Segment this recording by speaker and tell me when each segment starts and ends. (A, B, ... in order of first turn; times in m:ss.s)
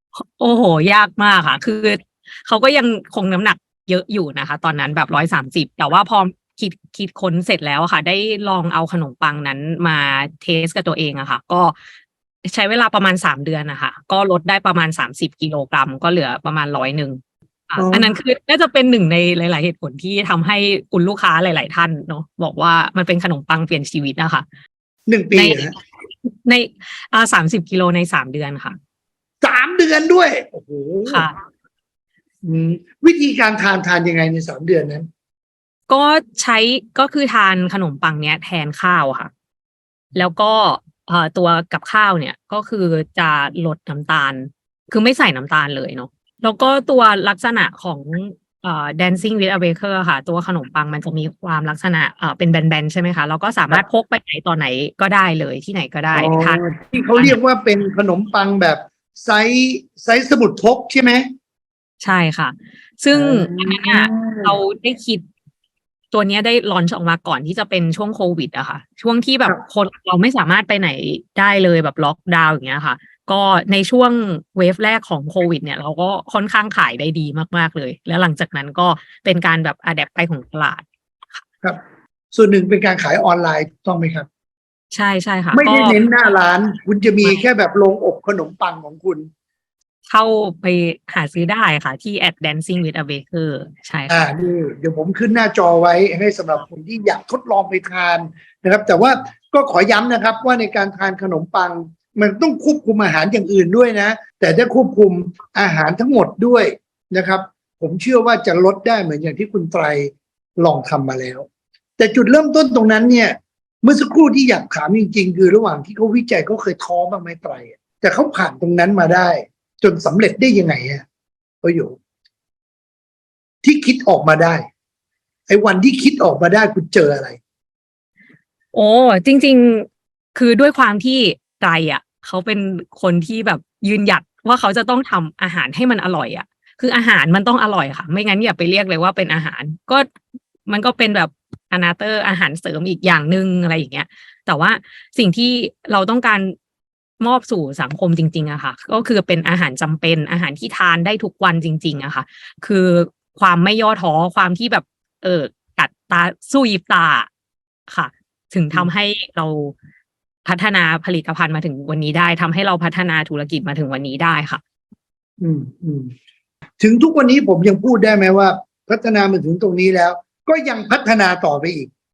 0:00.1-0:11.8 A
0:12.4-0:24.4 A
0:17.8-0:18.1 B
0:25.1-0:25.7 B
0:25.3-0:25.8 A
0:26.4-0:28.8 A
0:29.4-0:31.3 B
0:31.1-0:31.4 A
0:32.4-0:35.1 B
0:35.9-0:39.3 A
0:40.1-0:57.4 A
0:56.1-1:01.2 B
1:02.0-1:05.2 A
1:03.1-1:04.6 B
1:06.1-1:21.4 A
1:22.3-1:24.2 B
1:24.9-1:26.0 A
1:25.5-1:29.3 B
1:30.1-1:34.3 A
1:34.1-1:51.4 B
1:52.0-2:01.0 B
2:01.6-2:02.0 B
2:03.6-2:04.6 B
2:05.5-2:07.4 B
2:08.7-2:20.1 A
2:20.7-2:26.5 A
2:27.2-2:37.3 A
2:37.9-2:39.7 A
2:40.4-2:44.6 A
2:45.4-2:46.1 B
2:46.8-2:51.9 B